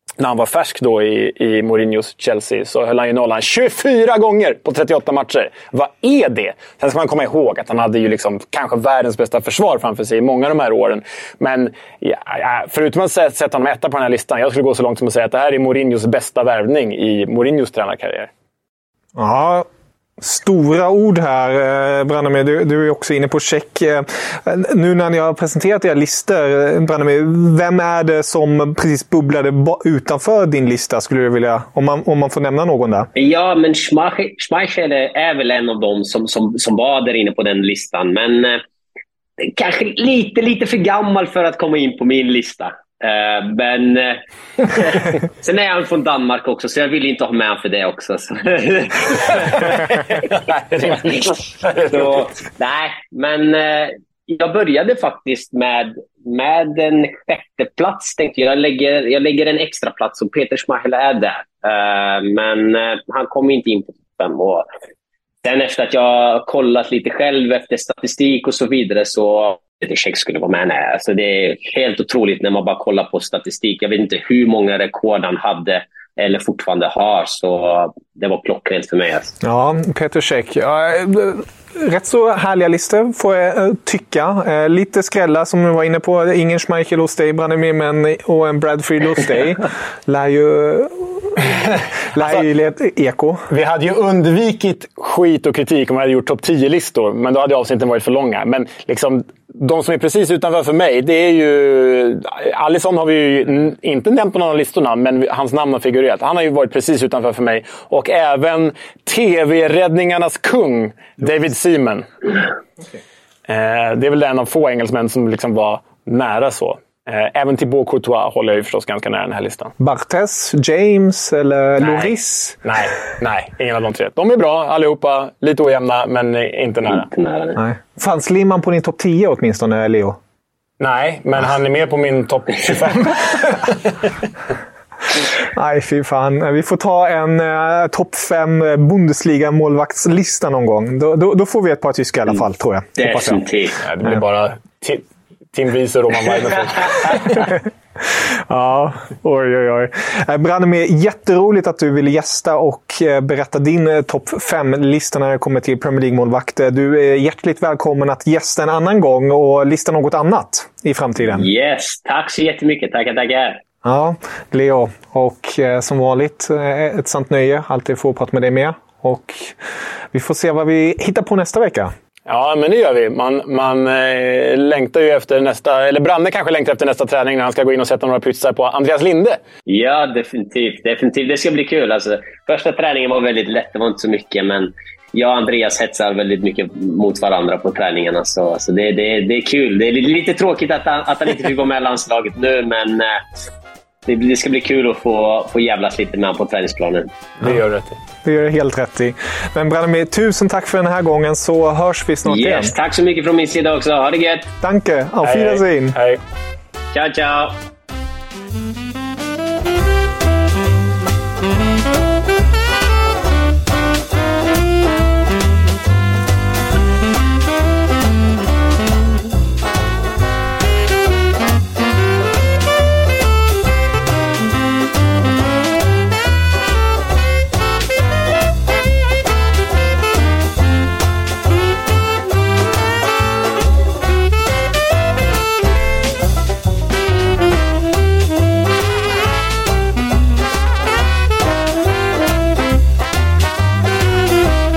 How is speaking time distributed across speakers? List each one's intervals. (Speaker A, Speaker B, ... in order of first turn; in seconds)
Speaker A: 0.2-18.3, 49.3-52.3, 93.5-112.0, 113.5-119.7, 121.8-127.1, 130.8-134.1, 143.8-147.6, 172.3-179.4, 197.4-198.0, 205.2-206.2
Speaker B: 19.2-19.7, 20.2-33.1, 79.4-93.5, 119.8-122.6, 127.6-130.2, 135.4-143.4, 148.1-161.5, 163.8-169.6, 170.1-171.9, 198.2-202.7, 204.6-206.0
Speaker C: 33.1-38.6, 39.4-49.9, 51.9-64.7, 65.4-79.3, 126.9-127.6, 143.0-143.8, 161.2-163.6, 179.7-193.2, 194.1-197.1, 202.3-204.5, 206.9-207.6